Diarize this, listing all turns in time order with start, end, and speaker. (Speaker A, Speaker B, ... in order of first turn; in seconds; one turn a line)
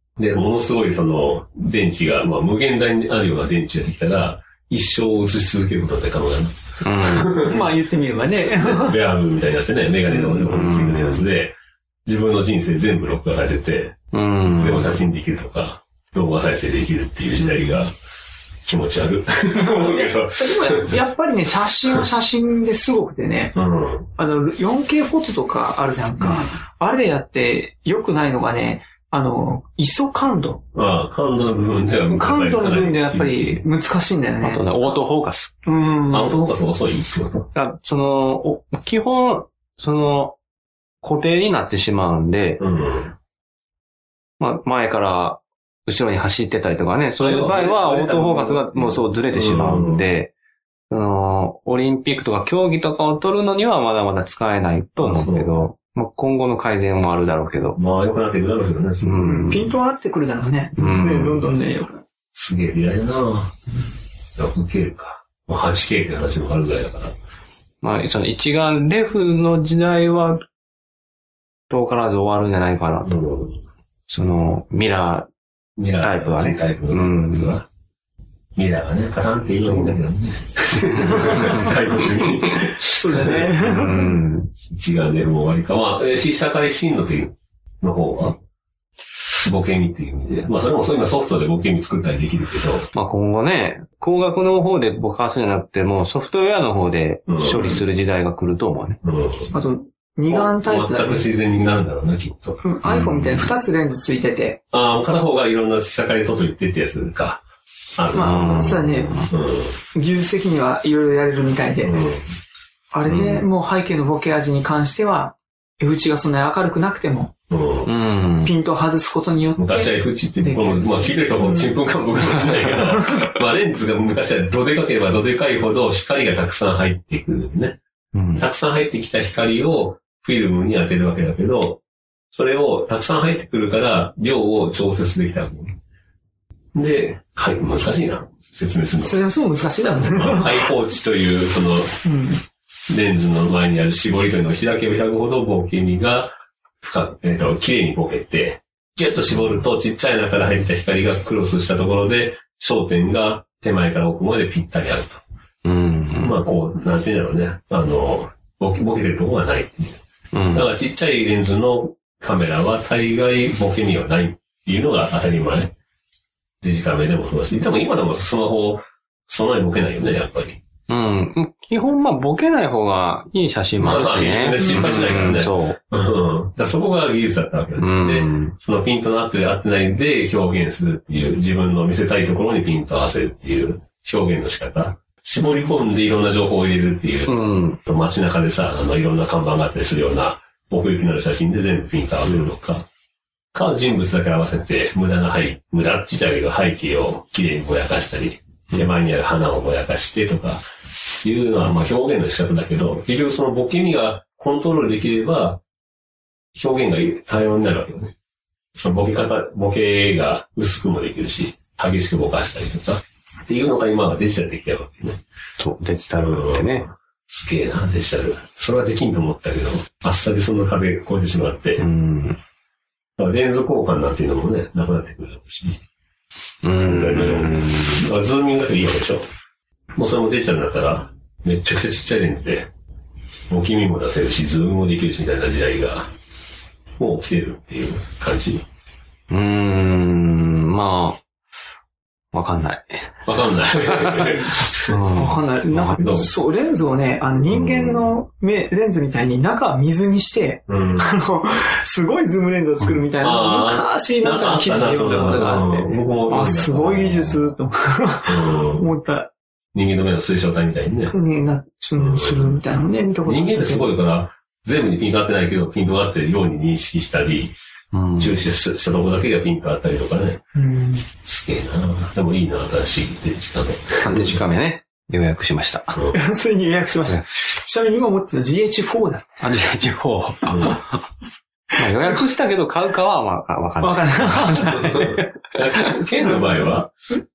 Speaker A: 0.2-7.7
Speaker B: 6.8-7.4
Speaker C: 7.4-9.0
Speaker A: 8.4-17.9
Speaker B: 10.4-11.2
Speaker B: 14.1-15.0
Speaker C: 17.4-17.7
Speaker A: 18.6-20.9
Speaker C: 19.5-23.5
Speaker A: 23.5-24.1
Speaker C: 24.2-30.6
Speaker A: 30.7-33.6
Speaker C: 32.1-34.7
Speaker B: 34.4-35.5
Speaker C: 35.6-36.4
Speaker A: 36.1-37.5
Speaker B: 37.5-40.4
Speaker B: 41.0-42.6
Speaker A: 42.6-43.1
Speaker B: 44.4-50.3
Speaker A: 47.2-50.0
Speaker B: 50.9-57.8
Speaker A: 55.0-55.5
Speaker A: 57.8-59.4
Speaker B: 59.0-59.7
Speaker C: 59.2-62.0
Speaker B: 60.8-61.5
Speaker A: 62.3-63.5
Speaker A: 64.3-67.1
Speaker B: 67.8-70.4
Speaker B: 71.7-73.2
Speaker A: 73.0-73.6
Speaker B: 74.1-75.3
Speaker A: 75.8-77.6
Speaker B: 76.0-77.6
Speaker A: 78.5-83.5
Speaker B: 81.0-81.7
Speaker C: 81.2-81.5
Speaker C: 82.8-84.1
Speaker B: 83.6-84.5
Speaker A: 84.7-88.4
Speaker A: 89.4-92.9
Speaker B: 92.9-99.0
Speaker A: 97.3-97.8
Speaker A: 99.0-99.5
Speaker C: 99.5-101.3
Speaker A: 100.3-102.6
Speaker C: 102.6-104.6
Speaker B: 102.8-103.5
Speaker A: 104.7-107.4
Speaker A: 108.0-109.8
Speaker C: 108.1-109.2
Speaker B: 108.2-109.3
Speaker C: 109.9-112.0
Speaker A: 111.8-112.2
Speaker C: 112.9-117.3
Speaker B: 113.1-113.5
Speaker A: 117.5-117.9
Speaker B: 117.8-118.5
Speaker C: 118.4-121.7
Speaker A: 119.6-127.8
Speaker B: 128.1-128.4
Speaker A: 128.3-131.8
Speaker A: 132.3-135.8
Speaker A: 136.7-139.2
Speaker C: 139.0-140.7
Speaker A: 140.1-141.9
Speaker C: 142.0-142.4
Speaker A: 142.9-155.2
Speaker B: 155.6-156.4
Speaker A: 156.2-160.0
Speaker B: 160.3-160.7
Speaker A: 160.5-165.7
Speaker A: 166.6-170.6
Speaker B: 170.9-175.8
Speaker A: 173.8-192.8
Speaker B: 177.8-178.5
Speaker B: 187.3-187.8
Speaker A: 193.5-200.6
Speaker A: 201.2-205.6
Speaker A: 206.5-208.1
Speaker A: 208.7-215.2
Speaker B: 215.6-216.9
Speaker A: 216.2-221.8
Speaker B: 221.8-222.4
Speaker A: 223.2-225.8
Speaker B: 226.6-228.0
Speaker A: 226.8-229.2
Speaker A: 229.9-232.7
Speaker A: 233.5-236.1
Speaker A: 237.0-238.6
Speaker B: 239.3-241.2
Speaker B: 242.3-243.2
Speaker A: 243.2-245.0
Speaker B: 243.8-245.4
Speaker C: 245.1-259.3
Speaker A: 245.7-246.3
Speaker A: 247.4-248.1
Speaker A: 250.7-251.1
Speaker A: 253.2-257.4
Speaker A: 258.3-258.9
Speaker A: 259.7-261.1
Speaker C: 261.1-263.9
Speaker A: 262.0-262.6
Speaker A: 263.2-267.5
Speaker B: 267.9-268.4
Speaker A: 268.2-270.4
Speaker C: 270.5-271.1
Speaker A: 271.2-274.4
Speaker B: 274.0-276.0
Speaker C: 276.1-279.4
Speaker B: 279.4-281.0
Speaker A: 280.5-280.8
Speaker B: 281.8-285.3
Speaker C: 283.8-284.9
Speaker A: 284.6-286.9